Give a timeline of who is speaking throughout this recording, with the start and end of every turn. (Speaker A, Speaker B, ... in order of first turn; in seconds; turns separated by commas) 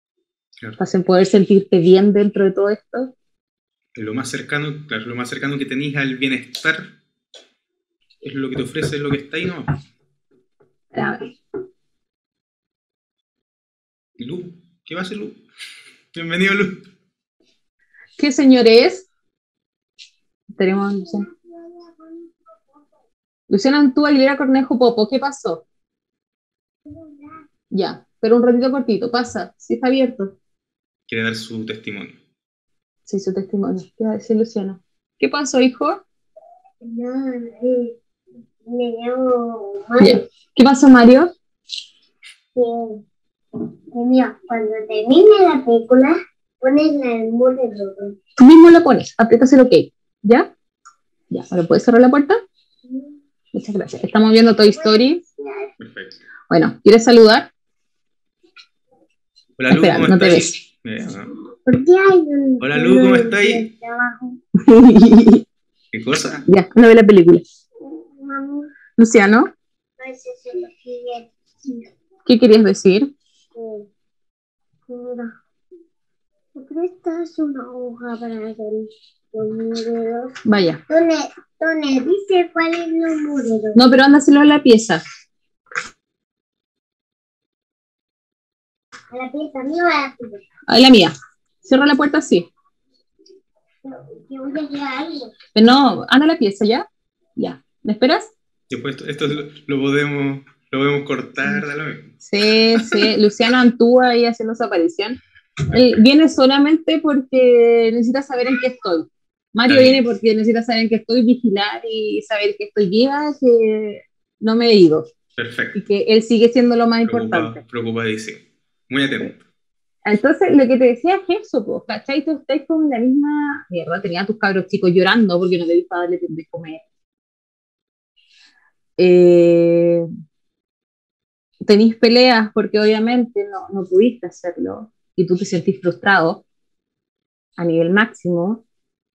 Speaker A: 0.8-3.1, Speaker B: 4.0-6.9, Speaker B: 8.2-9.8, Speaker A: 10.9-11.2, Speaker B: 14.2-15.4, Speaker B: 16.1-16.9, Speaker A: 18.2-19.1, Speaker A: 20.6-21.2, Speaker C: 21.0-22.2, Speaker A: 23.5-25.6, Speaker C: 26.9-27.4, Speaker A: 27.7-30.3, Speaker B: 31.1-32.2, Speaker A: 33.0-36.0, Speaker C: 36.8-37.9, Speaker C: 38.6-40.2, Speaker A: 40.0-41.3, Speaker C: 42.5-43.0, Speaker C: 43.9-48.2, Speaker A: 48.4-50.5, Speaker A: 51.3-52.4, Speaker A: 53.5-55.2, Speaker C: 54.6-55.6, Speaker B: 55.8-56.2, Speaker A: 56.5-57.5, Speaker B: 59.6-61.3, Speaker A: 59.7-60.5, Speaker C: 61.6-64.4, Speaker B: 62.6-63.6, Speaker A: 64.5-65.4, Speaker B: 65.9-66.5, Speaker A: 66.5-67.4, Speaker C: 67.8-68.7, Speaker A: 69.0-69.5, Speaker C: 70.0-71.8, Speaker A: 72.2-73.1, Speaker C: 73.5-73.9, Speaker C: 74.9-75.4, Speaker C: 76.5-80.3, Speaker A: 80.4-80.8, Speaker C: 80.9-83.9, Speaker A: 83.7-85.0, Speaker C: 89.1-90.4, Speaker A: 90.7-92.5, Speaker C: 93.8-95.3, Speaker A: 95.5-98.3, Speaker B: 98.7-102.1, Speaker A: 102.2-105.2, Speaker B: 102.8-103.0, Speaker A: 105.7-115.0, Speaker B: 109.7-110.0, Speaker B: 115.4-115.8, Speaker A: 115.7-117.6, Speaker B: 117.0-119.4, Speaker A: 120.0-126.8, Speaker A: 129.0-130.1, Speaker A: 131.6-136.4, Speaker A: 137.6-138.6